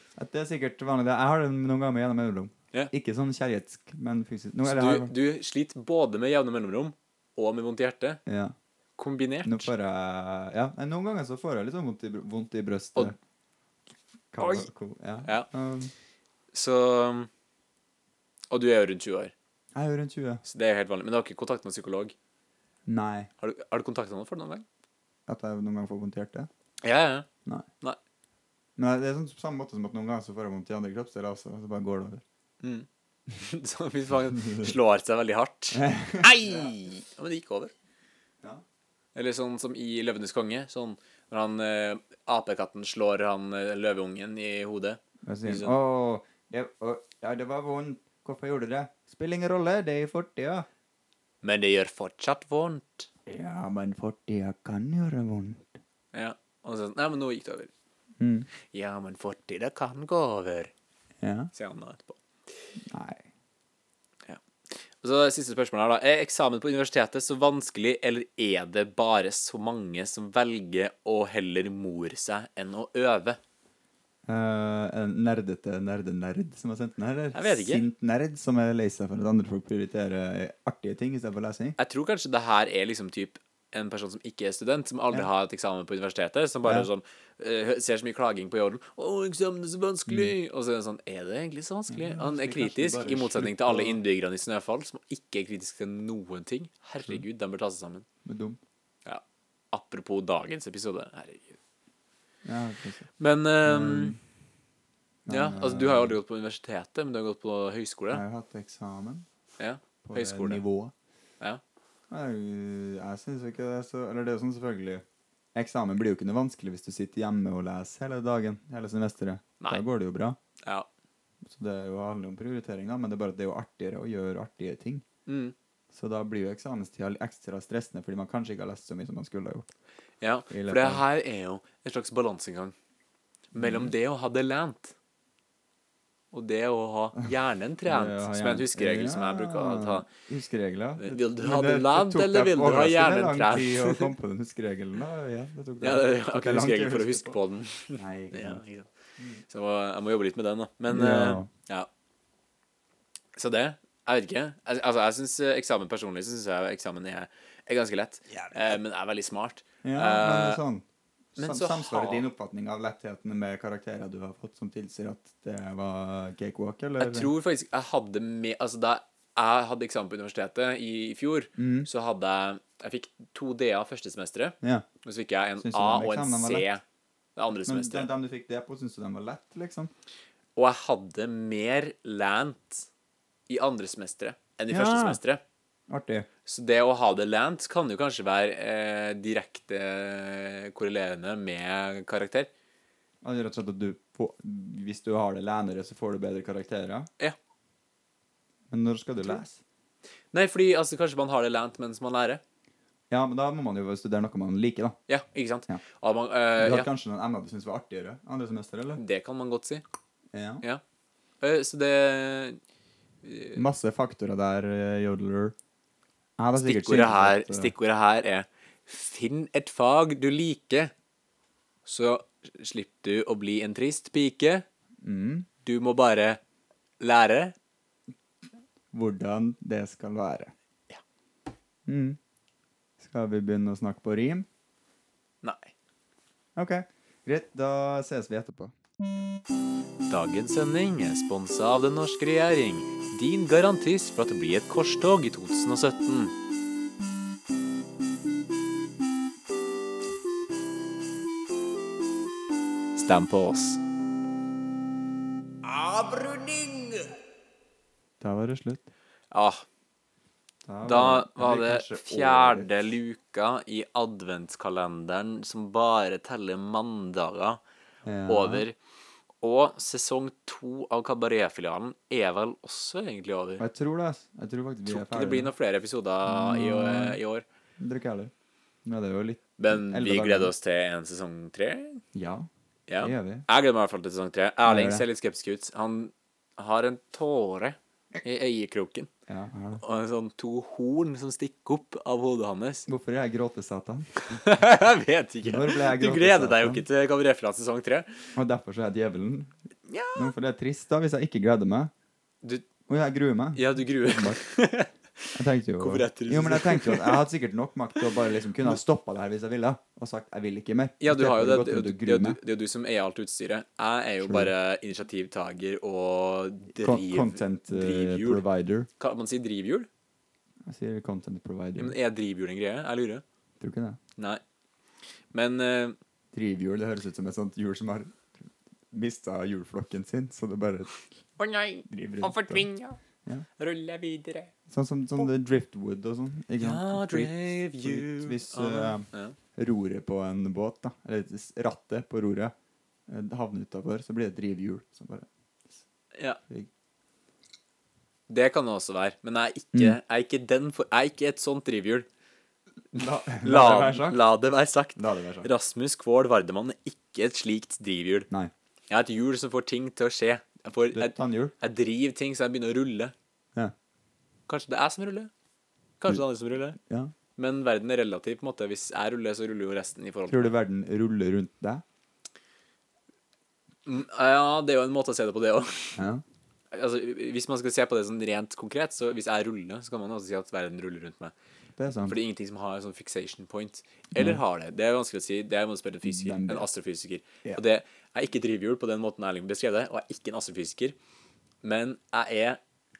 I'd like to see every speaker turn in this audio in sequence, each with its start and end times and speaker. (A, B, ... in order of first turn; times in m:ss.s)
0:00.2-0:05.1 A
0:04.6-0:08.2 B
0:08.2-0:08.5 A
0:09.0-0:09.7 B
0:09.4-0:13.1 A
0:14.3-0:15.9 A
0:14.4-0:14.7 B
0:16.5-0:17.3 B
0:18.5-0:19.3 B
0:19.7-0:20.4 A
0:20.4-0:22.1 B
0:22.8-0:23.3 A
0:23.4-0:24.6 B
0:25.3-0:26.5 A
0:26.8-0:27.3 B
0:28.8-0:32.2 A
0:32.6-0:37.7 B
0:34.3-0:34.7 A
0:35.7-0:36.7 A
0:39.1-0:45.7 B
0:45.2-0:50.7 A
0:51.4-0:53.1 B
0:53.2-0:55.8 A
0:56.1-0:57.7 B
0:58.2-0:58.5 A
0:58.6-1:00.7 B
1:01.2-1:01.5 A
1:01.5-1:02.7 B
1:02.8-1:03.2 A
1:04.2-1:13.4 B
1:14.3-1:21.8 A
1:17.3-1:17.8 B
1:21.8-1:38.0 B
1:26.6-1:26.9 A
1:30.1-1:30.3 A
1:31.9-1:34.0 A
1:38.2-1:38.6 A
1:39.0-1:41.6 B
1:42.4-1:43.1 A
1:43.2-1:44.2 B
1:43.6-1:44.2 A
1:45.2-1:46.2 A
1:45.3-1:48.2 B
1:48.1-1:49.2 A
1:49.6-1:50.6 B
1:50.0-1:50.9 A
1:52.1-1:55.0 A
1:55.5-2:00.4 A
2:01.4-2:05.0 A
2:05.3-2:05.5 B
2:05.9-2:09.7 A
2:10.2-2:12.7 B
2:10.5-2:11.0 A
2:13.5-2:14.9 B
2:13.5-2:13.9 A
2:16.3-2:20.1 B
2:17.9-2:27.4 A
2:21.0-2:24.1 B
2:25.8-2:28.9 B
2:28.0-2:28.6 A
2:29.2-2:29.4 A
2:29.5-2:31.9 B
2:30.9-2:31.5 A
2:33.4-2:40.6 B
2:39.8-2:40.8 A
2:41.4-2:47.3 A
2:41.4-2:42.3 B
2:47.0-2:56.8 B
2:51.6-2:51.9 A
2:54.6-2:54.9 A
2:55.6-2:56.7 A
2:57.4-2:58.1 B
2:57.6-2:59.9 A
3:00.6-3:02.9 B
3:03.5-3:05.4 B
3:04.7-3:05.2 A
3:05.9-3:06.3 A
3:06.4-3:12.5 B
3:13.2-3:17.1 A
3:18.7-3:19.6 A
3:20.3-3:22.4 B
3:23.1-3:25.0 A
3:25.1-3:26.9 B
3:26.6-3:29.0 A
3:29.0-3:29.8 B
3:30.3-3:30.6 A
3:31.4-3:32.6 B
3:33.2-3:33.6 B
3:33.5-3:35.5 A
3:36.4-3:37.7 A
3:36.6-3:40.9 B
3:41.8-3:44.6 B
3:45.0-3:45.5 A
3:45.6-3:46.4 B
3:47.0-3:47.5 B
3:48.9-3:50.5 A
3:51.8-3:52.2 A
3:53.0-3:54.5 A
3:55.4-3:55.7 B
3:56.6-3:58.7 A
4:00.1-4:06.3 B
4:12.9-4:13.8 B
4:15.6-4:17.1 B
4:18.2-4:18.9 A
4:19.3-4:19.6 B
4:20.6-4:22.8 A
4:20.8-4:27.6 B
4:28.0-4:28.6 A
4:28.3-4:28.8 B
4:29.4-4:33.6 B
4:33.6-4:35.5 A
4:34.9-4:37.4 B
4:36.2-4:37.2 A
4:37.8-4:38.3 A
4:38.8-4:40.5 A
4:39.6-4:42.0 B
4:42.1-4:42.5 A
4:42.9-4:49.1 B
4:43.0-4:43.4 A
4:44.6-4:45.0 A
4:49.3-4:49.8 A
4:49.8-4:52.9 B
4:52.9-4:54.1 A
4:54.2-4:58.3 B
4:55.4-4:56.8 A
4:58.3-4:59.5 A
4:59.9-5:00.3 B
5:00.1-5:01.9 A
5:02.9-5:04.4 A
5:03.5-5:07.2 B
5:05.3-5:12.4 A
5:11.0-5:18.4 B
5:14.2-5:14.5 A
5:16.8-5:18.9 A
5:19.0-5:19.9 B
5:20.6-5:21.9 A
5:21.8-5:23.2 B
5:23.6-5:24.0 A
5:25.3-5:26.0 B
5:26.3-5:31.0 A
5:31.4-5:33.0 B
5:31.9-5:32.7 A
5:33.6-5:34.5 B
5:34.7-5:42.5 A
5:36.6-5:39.4 B
5:43.1-5:45.8 A
5:46.1-5:46.4 B
5:48.3-5:52.0 B
5:52.9-5:54.2 A
5:52.9-5:58.3 B
5:55.0-5:55.5 A
5:58.9-6:03.1 B
6:00.9-6:01.5 A
6:04.5-6:05.3 B
6:06.0-6:06.8 B
6:06.8-6:07.1 A
6:07.4-6:10.5 B
6:10.3-6:11.8 A
6:13.8-6:16.0 B
6:16.0-6:16.2 A
6:16.7-6:21.3 B
6:21.8-6:22.2 A
6:22.0-6:31.0 B
6:24.1-6:24.4 A
6:26.0-6:26.7 A
6:31.6-6:32.6 B